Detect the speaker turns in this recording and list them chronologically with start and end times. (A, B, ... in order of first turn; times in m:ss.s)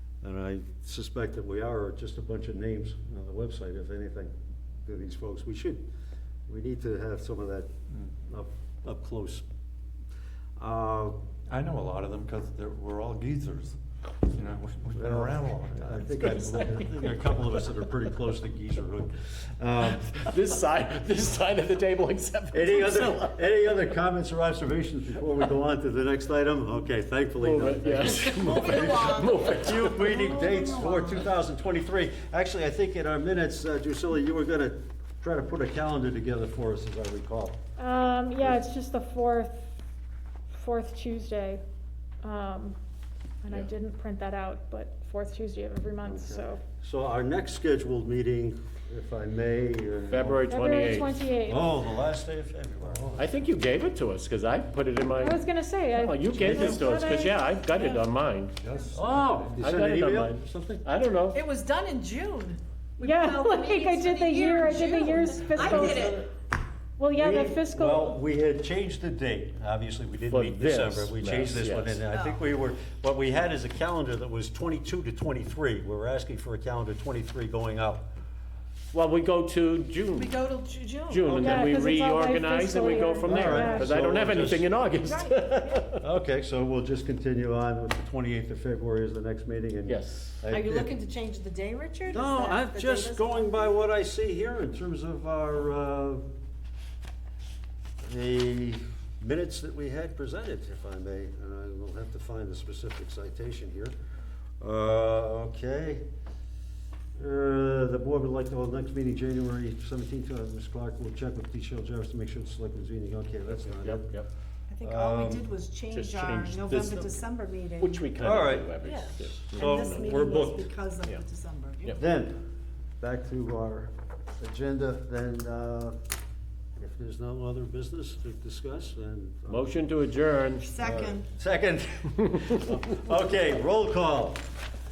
0:00.2-0:04.3 A
0:04.8-0:05.8 A
0:06.5-0:09.4 A
0:10.6-0:11.2 A
0:11.5-0:13.8 B
0:14.3-0:17.0 B
0:14.9-0:20.2 A
0:16.2-0:16.8 C
0:20.0-0:23.4 C
0:22.5-0:37.6 A
0:27.4-0:30.2 C
0:28.0-0:31.2 D
0:37.8-0:39.7 E
0:40.5-0:41.6 E
0:42.2-0:42.8 E
0:43.4-0:46.6 E
0:46.0-0:50.5 A
0:50.1-0:51.2 C
0:50.5-0:51.8 E
0:51.4-0:53.2 A
0:52.9-0:53.3 B
0:53.2-0:58.6 C
0:55.1-0:57.6 E
0:56.3-0:56.7 B
0:56.4-0:56.8 A
0:58.6-0:59.6 B
0:58.9-1:00.8 A
0:59.6-1:01.4 C
1:01.3-1:06.3 D
1:03.0-1:06.3 E
1:05.8-1:06.2 A
1:07.0-1:08.2 E
1:07.1-1:18.1 A
1:10.3-1:12.0 C
1:12.1-1:12.4 D
1:18.9-1:20.4 C
1:20.2-1:21.8 D
1:21.1-1:26.0 C
1:21.3-1:24.0 E
1:22.6-1:23.1 D
1:23.2-1:24.7 A
1:25.0-1:25.8 D
1:26.0-1:30.9 A
1:29.8-1:30.4 C
1:30.5-1:33.6 D
1:32.1-1:36.2 A
1:38.0-1:43.9 A
1:44.6-1:46.0 A
1:47.2-1:54.1 A
1:53.8-1:54.3 C
1:54.7-1:58.2 D
1:54.8-1:55.5 A
1:55.9-1:57.2 C
1:57.8-2:01.2 C
1:58.2-1:58.7 A
1:58.8-2:02.0 D
1:59.5-2:00.7 A
2:02.0-2:02.4 A
2:03.0-2:06.0 A
2:06.8-2:09.8 A
2:09.5-2:10.7 C
2:10.6-2:11.3 D
2:10.8-2:14.4 A